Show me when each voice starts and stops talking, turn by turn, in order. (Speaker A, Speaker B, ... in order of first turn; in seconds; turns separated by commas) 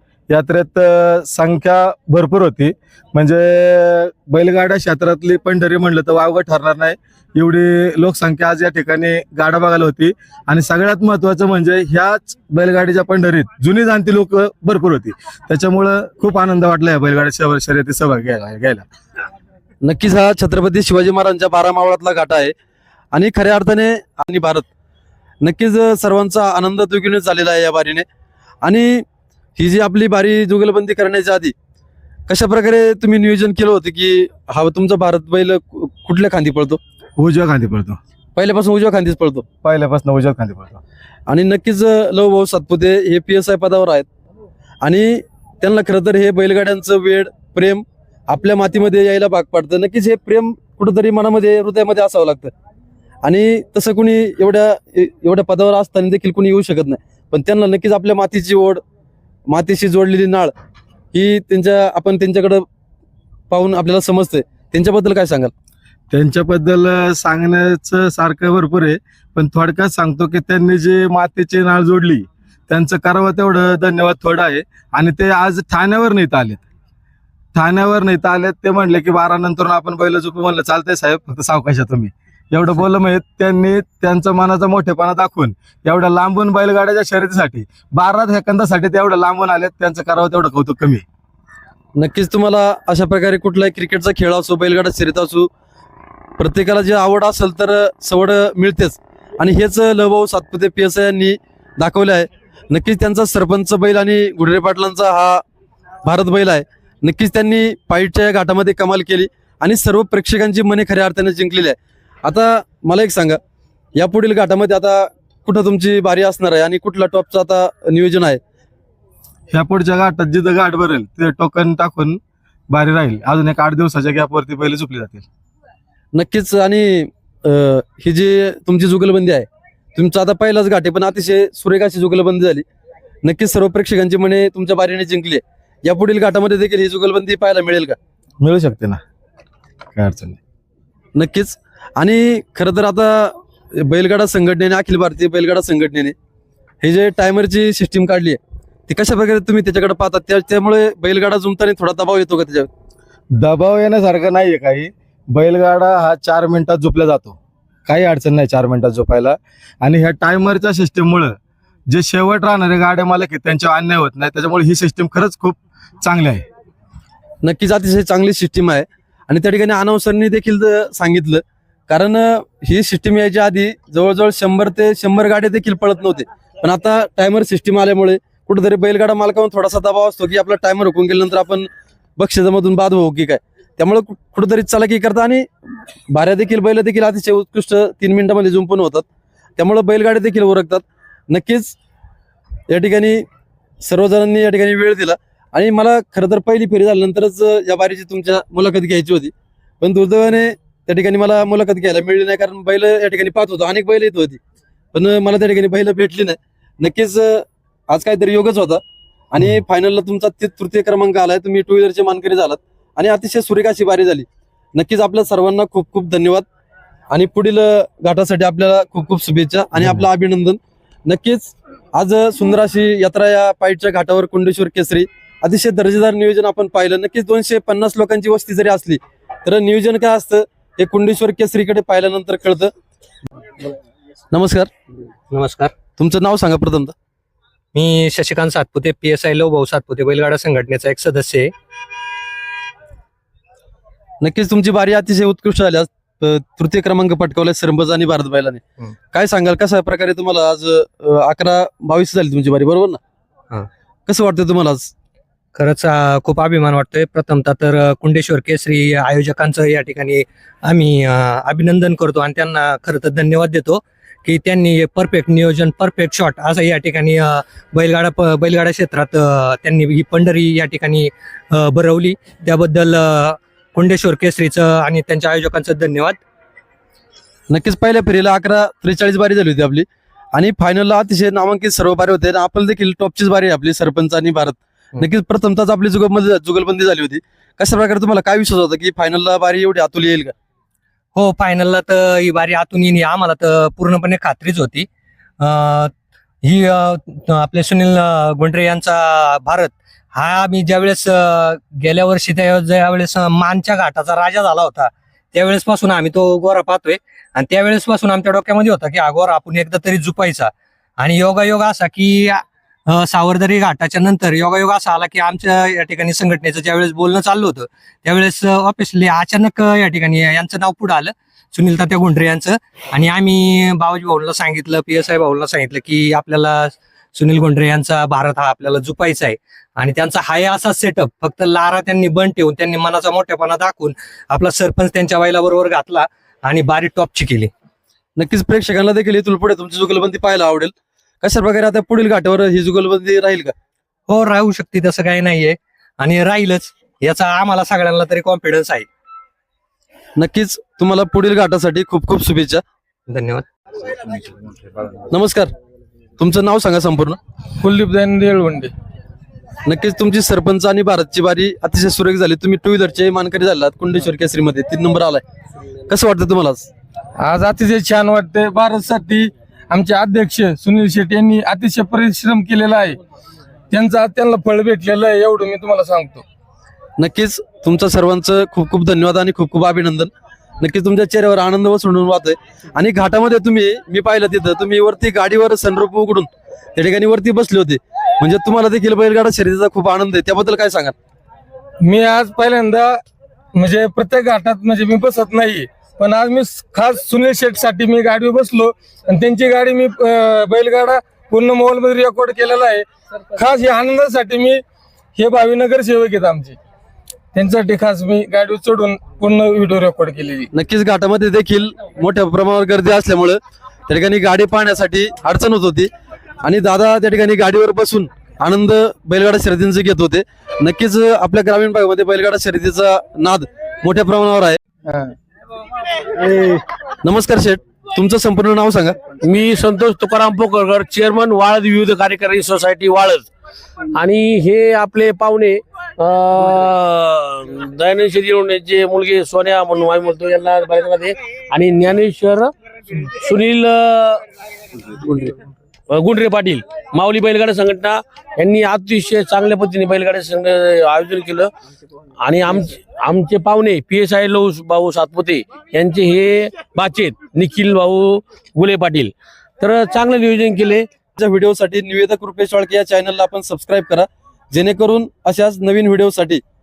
Speaker A: 0.3-18.8, Speaker B: 19.8-22.5, Speaker B: 23.1-24.7, Speaker B: 25.4-28.1, Speaker B: 28.6-29.0, Speaker B: 29.6-31.5, Speaker B: 32.3-36.8, Speaker A: 37.2-38.0, Speaker B: 38.4-39.5, Speaker A: 39.6-40.8, Speaker B: 41.3-44.1, Speaker B: 44.8-52.5, Speaker B: 53.2-58.8, Speaker B: 59.5-60.5, Speaker B: 61.1-62.6, Speaker B: 63.5-65.5, Speaker A: 66.1-76.6, Speaker A: 77.5-91.0, Speaker B: 92.0-95.5, Speaker B: 96.4-105.4, Speaker B: 106.0-113.4, Speaker B: 114.0-118.4, Speaker A: 119.5-125.3, Speaker B: 126.2-132.7, Speaker B: 133.2-138.0, Speaker A: 138.4-139.0, Speaker A: 139.9-140.4, Speaker B: 141.2-146.1, Speaker B: 146.8-152.7, Speaker A: 153.4-161.3, Speaker A: 161.9-166.4, Speaker B: 167.4-185.4, Speaker B: 186.1-189.1, Speaker B: 189.6-191.8, Speaker B: 192.7-193.2, Speaker B: 193.8-204.4, Speaker B: 204.9-216.5, Speaker B: 217.1-232.7, Speaker B: 234.3-234.7, Speaker C: 235.3-235.7, Speaker B: 236.0-236.9, Speaker C: 237.7-241.5, Speaker B: 244.2-253.0, Speaker B: 254.1-254.9, Speaker C: 255.6-276.2, Speaker B: 277.5-290.3, Speaker C: 291.2-294.9, Speaker C: 295.4-295.9, Speaker C: 296.4-337.5, Speaker B: 338.2-343.5, Speaker C: 344.1-348.9, Speaker B: 350.2-352.6, Speaker C: 353.1-353.9, Speaker B: 355.1-355.5, Speaker B: 356.2-357.2, Speaker D: 357.6-358.7, Speaker B: 359.7-365.2, Speaker B: 365.9-366.7, Speaker D: 367.2-373.0, Speaker D: 373.7-376.2, Speaker B: 377.0-390.9, Speaker D: 391.8-393.0, Speaker D: 393.5-404.6, Speaker D: 405.2-406.6, Speaker D: 407.3-410.5, Speaker B: 410.5-415.9, Speaker B: 416.4-424.6, Speaker B: 427.0-429.0, Speaker E: 429.2-433.3, Speaker E: 433.9-442.5, Speaker E: 443.1-444.2, Speaker E: 444.9-445.3, Speaker E: 445.9-451.5, Speaker E: 452.2-460.9, Speaker B: 461.2-466.4